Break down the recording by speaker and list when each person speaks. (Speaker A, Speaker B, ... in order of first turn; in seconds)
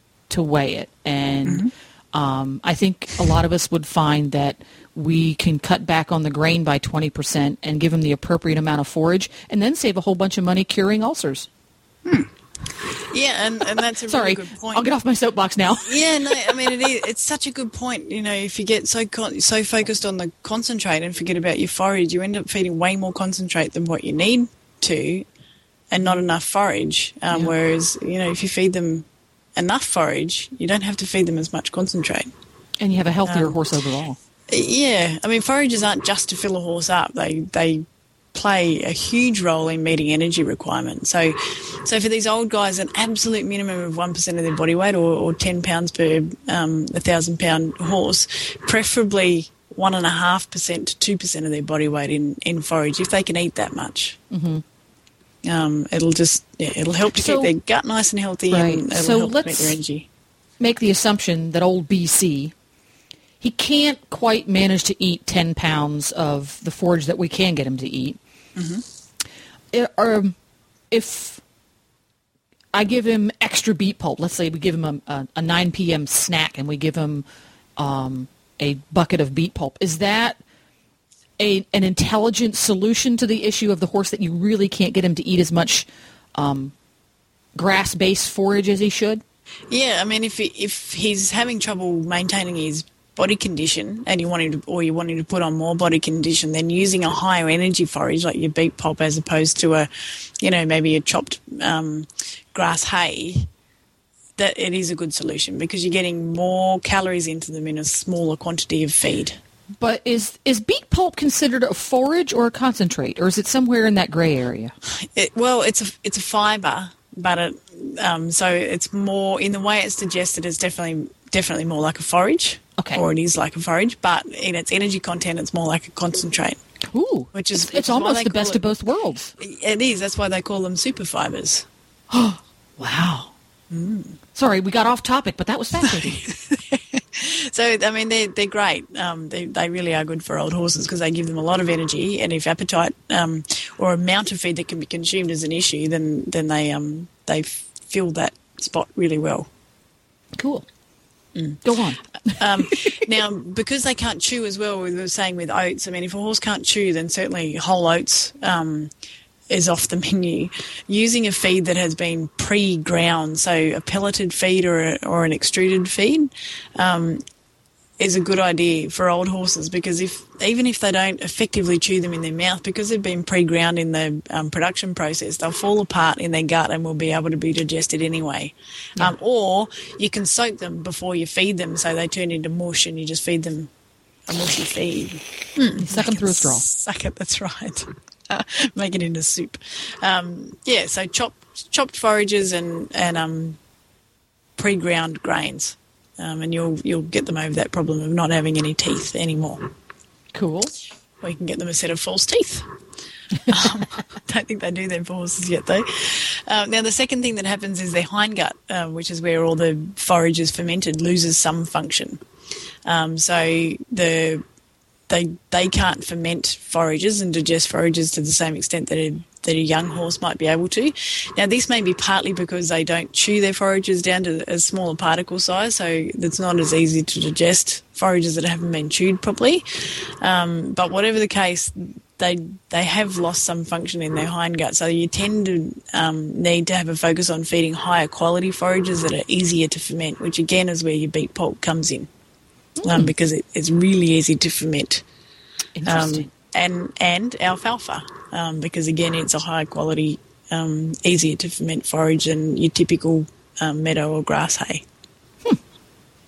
Speaker A: 0.3-11.5, 14.1-16.0, 32.8-34.2, 54.3-54.6, 57.1-57.5, 58.5-59.8, 60.6-62.5, 63.4-68.2, 69.7-70.3, 70.9-71.4, 72.7-77.2, 77.8-80.4, 81.4-86.7, 87.5-89.2, 109.8-114.7, 122.8-123.0, 126.9-129.3, 132.1-133.3, 134.3-136.2, 150.4-150.7, 151.6-153.1, 185.8-186.6, 200.3-200.7, 242.8-243.1, 245.8-246.3
Speaker B: 1.4-1.7, 12.0-14.9, 15.8-25.2, 25.9-32.3, 33.2-33.6, 34.5-54.2, 55.4-60.1, 68.5-68.8, 89.7-99.9, 100.4-103.5, 104.4-109.4, 115.0-126.6, 127.3-128.6, 129.4-131.7, 133.7-134.2, 135.8-149.5, 151.3-151.6, 152.3-158.9, 159.5-167.2, 168.0-183.7, 184.3-193.6, 194.6-199.6, 201.2-202.7, 203.5-212.2, 212.8-214.4, 215.1-229.6, 230.2-242.1, 242.8-245.0, 245.8-254.8